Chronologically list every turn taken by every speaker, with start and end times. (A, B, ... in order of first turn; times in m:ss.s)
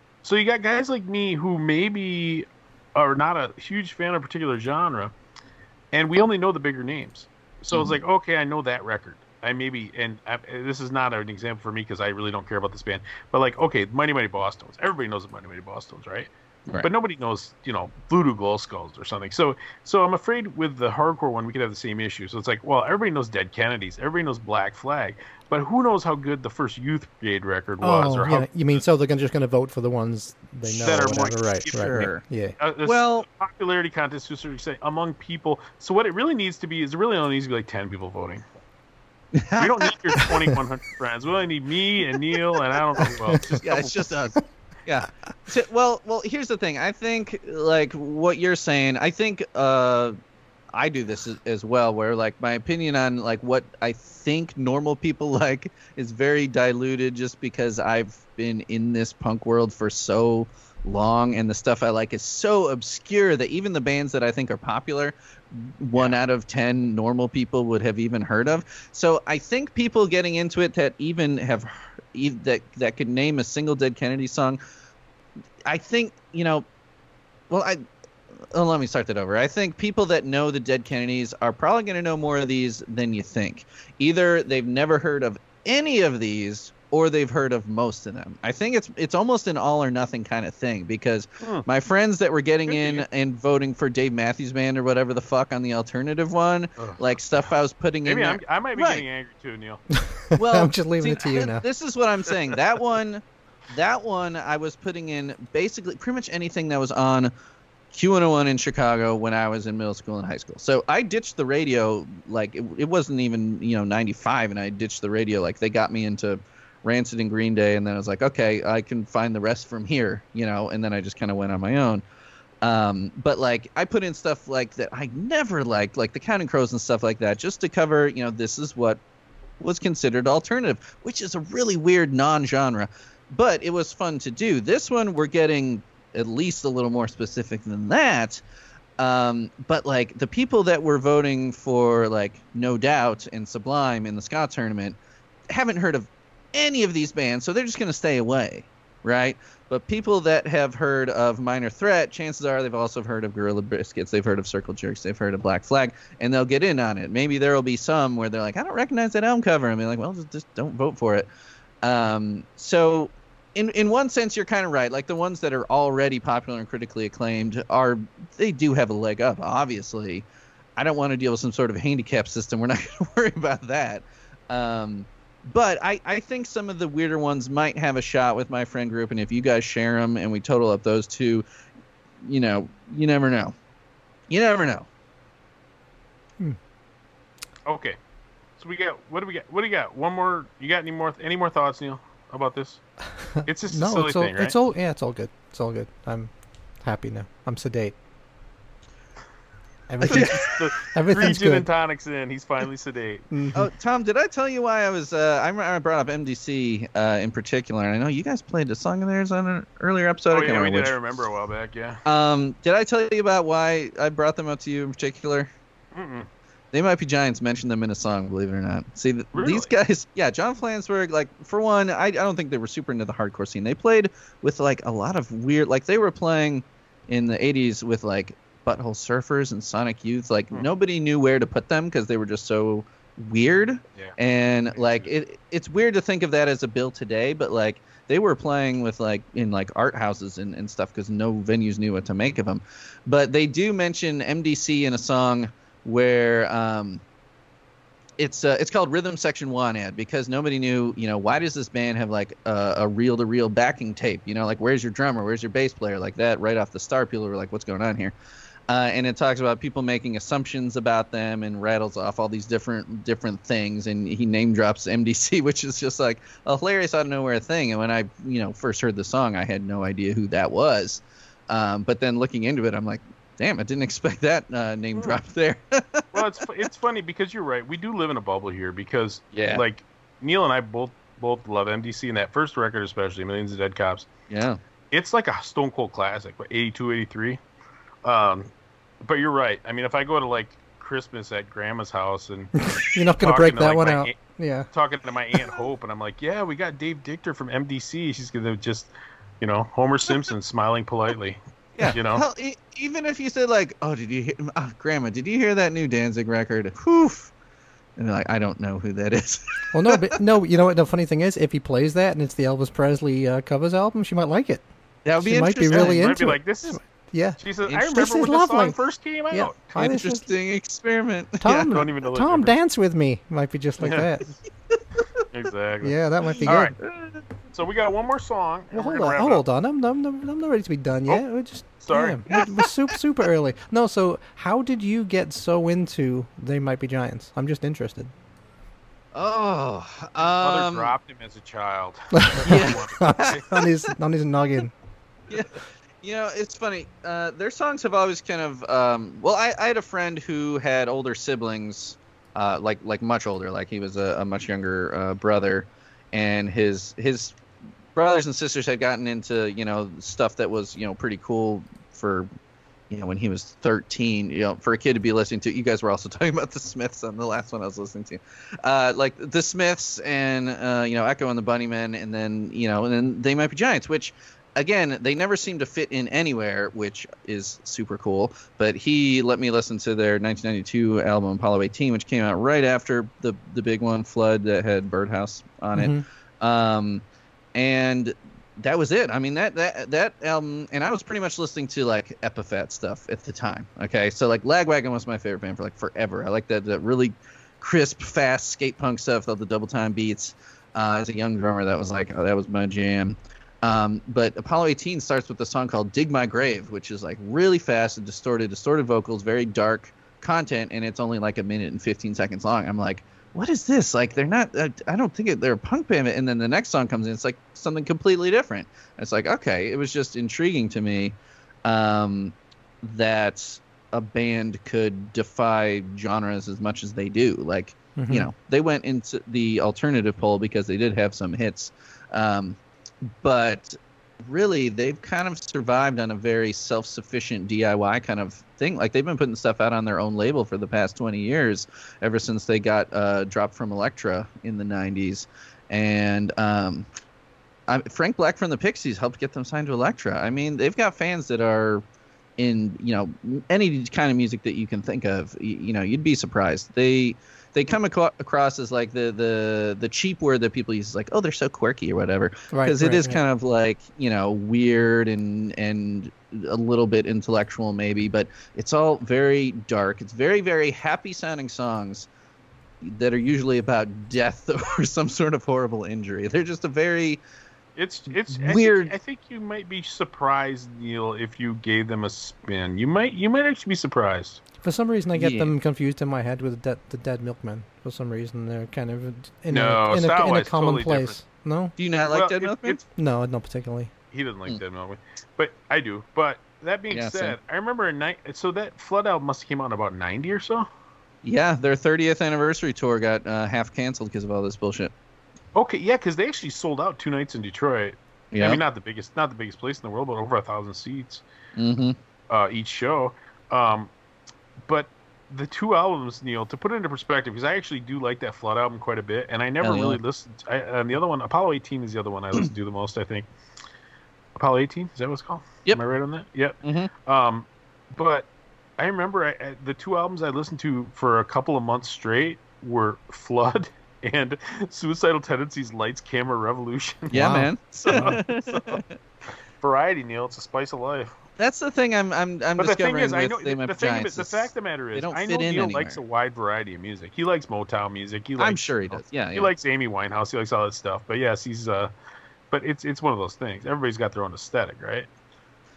0:00.2-0:05.1 A
0:05.9-0:28.5 A
0:07.7-0:08.0 B
0:27.8-0:32.6 C
0:30.7-0:31.8 A
0:31.7-0:32.2 B
0:32.6-0:38.4 A
0:32.8-0:33.2 B
0:39.3-0:39.9 B
0:39.6-0:44.2 A
0:43.0-0:43.4 C
0:43.6-0:50.2 B
0:50.7-1:14.6 B
1:15.7-1:16.7 B
1:17.5-1:17.8 B
1:18.5-1:39.0 B
1:31.4-1:31.7 A
1:32.7-1:33.1 A
1:38.0-1:39.8 A
1:39.9-1:41.7 C
1:40.4-1:47.3 B
1:47.9-2:02.0 B
2:02.6-2:09.0 B
2:09.6-2:18.4 B
2:19.0-2:25.0 B
2:25.5-2:41.3 B
2:41.8-2:50.3 B
2:50.8-3:01.4 B
3:02.2-3:03.6 B
3:04.3-3:04.9 B
3:07.7-3:08.0 A
3:08.6-3:12.8 A
3:13.2-3:18.0 C
3:13.4-3:14.6 A
3:19.9-3:21.7 C
3:20.0-3:23.2 A
3:20.1-3:20.6 B
3:23.3-3:23.7 C
3:23.6-3:31.0 B
3:30.3-3:32.0 A
3:32.0-3:35.5 B
3:35.9-3:36.3 A
3:36.7-4:07.0 B
3:39.3-3:39.7 A
3:54.8-3:55.1 A
4:08.2-4:18.2 B
4:18.7-4:36.1 B
4:36.1-4:44.1 A
4:39.3-4:39.6 B
4:44.3-4:44.6 B
4:44.9-4:47.4 A
4:48.0-4:48.5 A
4:49.0-4:54.2 A
4:52.7-4:54.7 C
4:54.7-5:01.4 A
5:01.8-5:07.3 B
5:01.9-5:02.2 A
5:08.0-5:10.1 B
5:09.7-5:14.7 C
5:15.0-5:16.0 B
5:15.2-5:18.8 C
5:15.7-5:16.8 A
5:17.4-5:19.8 A
5:19.3-5:20.3 C
5:19.8-5:21.7 B
5:21.4-5:24.4 C
5:21.6-5:22.5 A
5:23.8-5:24.1 A
5:24.7-5:25.2 B
5:25.3-5:26.8 A
5:25.8-5:26.8 C
5:26.4-5:27.2 B
5:27.5-5:29.4 A
5:28.7-5:38.1 C
5:31.8-5:32.3 A
5:39.1-5:40.9 B
5:40.4-5:43.5 A
5:42.1-5:44.7 C
5:42.4-5:43.4 B
5:45.3-5:57.4 B
5:58.0-6:02.3 B
6:02.9-6:27.0 B
6:25.8-6:26.0 C
6:27.6-7:12.6 B
7:08.0-7:08.3 C
7:13.2-7:26.9 B
7:27.7-7:31.8 B
7:32.4-7:52.1 B
7:42.5-7:43.2 C
7:52.8-7:57.2 B
7:57.8-8:04.4 A
7:58.3-7:58.9 B
8:04.6-8:11.8 C
8:05.2-8:05.5 B
8:09.5-8:11.2 A
8:11.8-8:12.8 B
8:12.1-8:12.8 A
8:13.0-8:13.9 C
8:14.1-8:20.7 A
8:16.9-8:17.4 B
8:21.2-8:24.9 B
8:25.6-8:31.2 A
8:28.3-8:28.6 B
8:31.6-8:32.0 B
8:32.3-8:33.9 A
8:34.7-8:43.3 A
8:39.6-8:40.0 B
8:44.4-8:48.3 A
8:46.6-8:46.9 B
8:48.8-8:57.3 A
8:57.1-8:58.2 C
8:57.1-8:59.0 B
8:57.9-8:58.8 A
8:59.6-9:01.2 A
9:01.4-9:06.0 B
9:02.6-9:11.9 A
9:08.4-9:09.5 B
9:12.5-9:15.1 A